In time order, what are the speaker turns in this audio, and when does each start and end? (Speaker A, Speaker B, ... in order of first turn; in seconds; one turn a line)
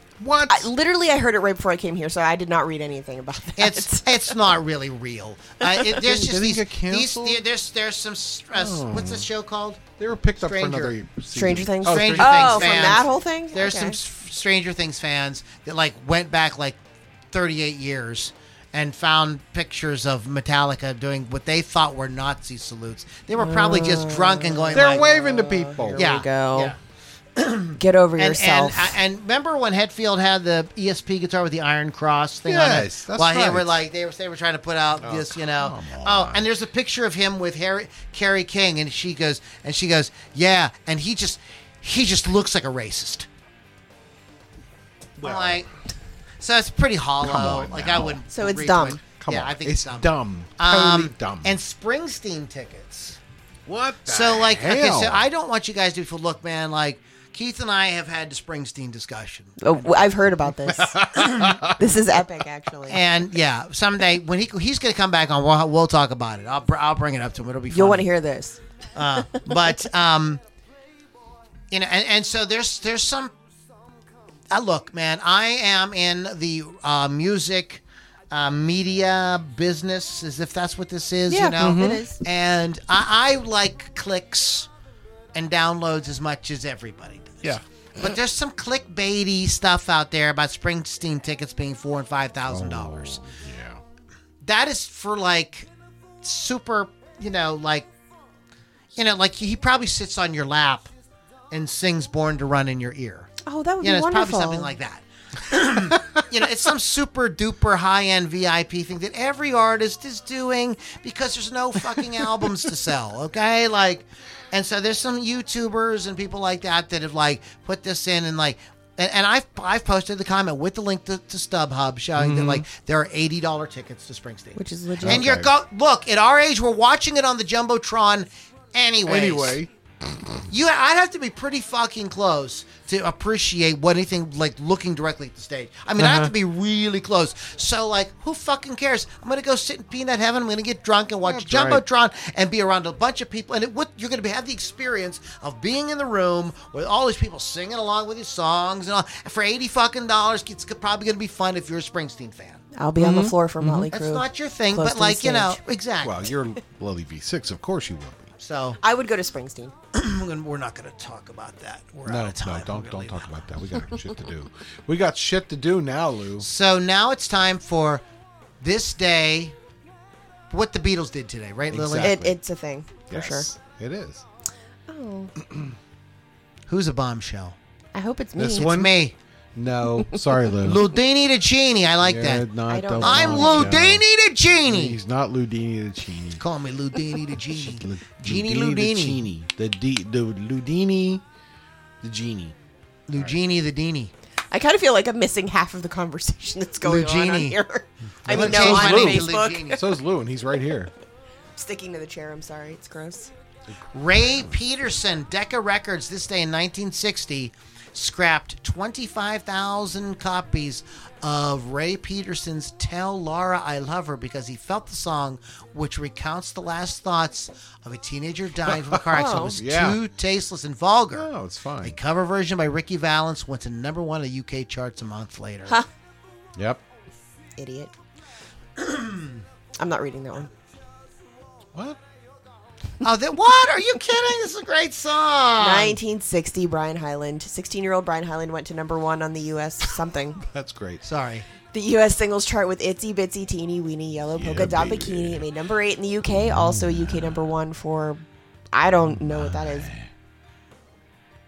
Speaker A: 0.2-0.7
Speaker B: 0.5-4.3
Speaker C: 3.6-9.8
Speaker A: 5.9-7.4
Speaker A: 8.5-9.3
Speaker A: 10.0-13.1
Speaker C: 10.4-11.0
Speaker B: 11.3-14.0
Speaker C: 11.9-16.8
Speaker C: 17.3-25.1
Speaker B: 23.4-26.8
Speaker A: 24.7-26.2
Speaker C: 25.9-26.8
Speaker C: 27.4-43.3
Speaker B: 27.8-29.0
Speaker A: 32.5-33.8
Speaker A: 35.0-36.5
Speaker A: 45.2-45.7
Speaker C: 45.2-45.7
Speaker C: 46.4-53.2
Speaker A: 47.2-48.2
Speaker B: 48.3-49.0
Speaker A: 49.2-51.6
Speaker A: 53.7-55.3
Speaker C: 54.0-59.9
Speaker B: 59.6-63.0
Speaker A: 60.6-61.8
Speaker C: 61.1-61.6
Speaker C: 62.9-68.1
Speaker B: 67.7-68.6
Speaker C: 69.0-70.4
Speaker B: 69.2-69.7
Speaker C: 71.7-73.3
Speaker C: 74.5-84.7
Speaker B: 81.3-82.2
Speaker A: 81.6-82.0
Speaker C: 85.3-87.5
Speaker C: 88.0-93.2
Speaker A: 92.5-93.8
Speaker C: 94.4-95.7
Speaker C: 96.2-97.9
Speaker C: 99.0-100.9
Speaker C: 101.5-129.6
Speaker B: 103.4-104.7
Speaker A: 122.2-122.7
Speaker B: 124.6-125.3
Speaker A: 125.0-125.5
Speaker A: 129.1-129.7
Speaker C: 130.5-152.6
Speaker A: 136.0-136.3
Speaker A: 141.2-141.8
Speaker B: 152.7-155.6
Speaker A: 153.0-153.9
Speaker C: 153.9-156.3
Speaker A: 156.0-158.3
Speaker C: 158.4-158.8
Speaker B: 158.8-159.7
Speaker C: 159.9-163.4
Speaker A: 162.1-166.5
Speaker C: 166.4-168.0
Speaker C: 168.6-169.6
Speaker C: 170.5-172.2
Speaker A: 171.7-172.4
Speaker B: 172.0-173.5
Speaker A: 173.1-174.2
Speaker B: 174.9-175.3
Speaker A: 175.4-175.8
Speaker C: 176.7-177.6
Speaker B: 177.9-178.8
Speaker A: 178.4-178.9
Speaker C: 178.6-179.2
Speaker A: 179.6-180.9
Speaker C: 180.6-182.5
Speaker A: 182.0-184.0
Speaker B: 182.7-183.7
Speaker C: 183.0-185.0
Speaker A: 184.7-186.4
Speaker C: 186.4-189.2
Speaker A: 187.3-191.2
Speaker A: 192.0-192.6
Speaker C: 193.1-194.1
Speaker B: 194.5-200.0
Speaker C: 196.8-197.6
Speaker C: 198.2-199.8
Speaker A: 198.3-200.9
Speaker B: 201.6-203.3
Speaker C: 203.9-221.3
Speaker A: 204.2-204.5
Speaker A: 218.6-220.0
Speaker B: 219.1-219.6
Speaker A: 221.1-222.0
Speaker C: 221.8-225.8
Speaker A: 226.6-226.8
Speaker B: 227.6-227.9
Speaker C: 228.8-229.4
Speaker B: 229.8-230.5
Speaker A: 231.7-232.0
Speaker C: 233.0-236.0
Speaker B: 235.6-240.4
Speaker A: 240.4-241.0
Speaker C: 241.0-241.5
Speaker B: 241.7-249.9
Speaker A: 244.3-245.5
Speaker A: 246.5-247.2
Speaker A: 249.2-250.1